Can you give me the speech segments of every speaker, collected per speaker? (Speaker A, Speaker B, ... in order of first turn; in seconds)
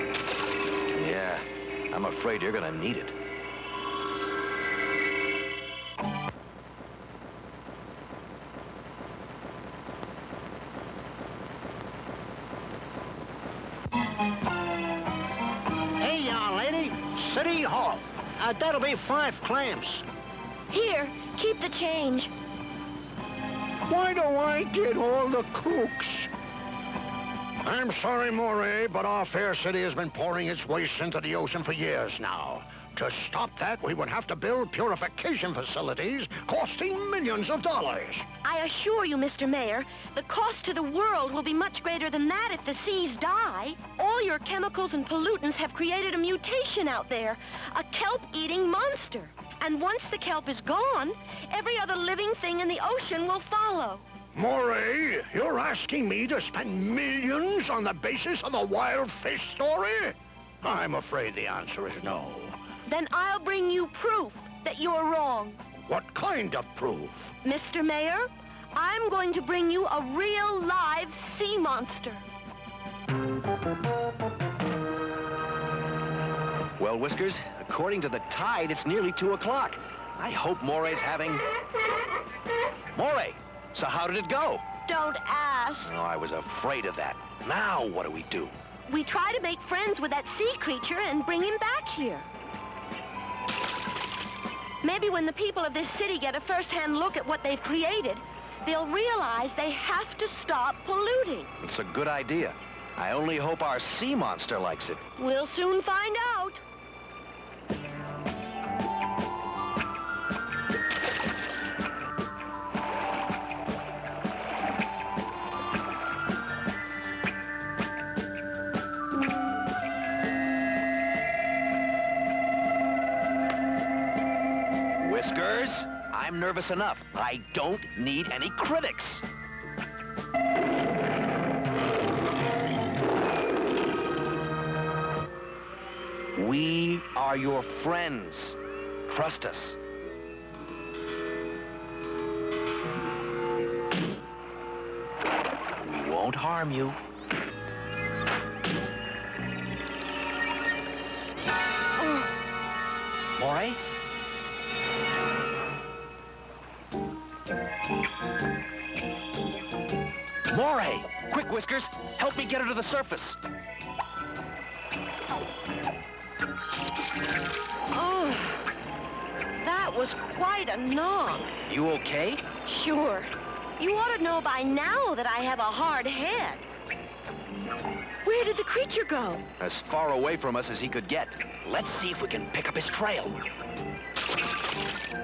Speaker A: 0.9-3.1, 76.8-81.4, 82.9-84.6, 85.8-88.5, 101.6-105.0, 125.0-129.2, 136.3-139.8, 145.8-147.0, 153.4-153.8, 160.5-163.4, 171.7-172.4, 179.6-183.4
Speaker B: 16.0-20.0, 23.9-26.3, 27.6-38.3, 54.3-62.6, 65.9-67.3
Speaker C: 20.7-22.3, 38.4-54.0, 62.9-65.6, 67.4-72.2, 84.9-85.9, 88.9-92.3, 94.8-101.5, 105.2-106.6, 152.0-152.3, 167.9-168.7, 169.6-171.5, 172.6-176.7, 178.2-179.4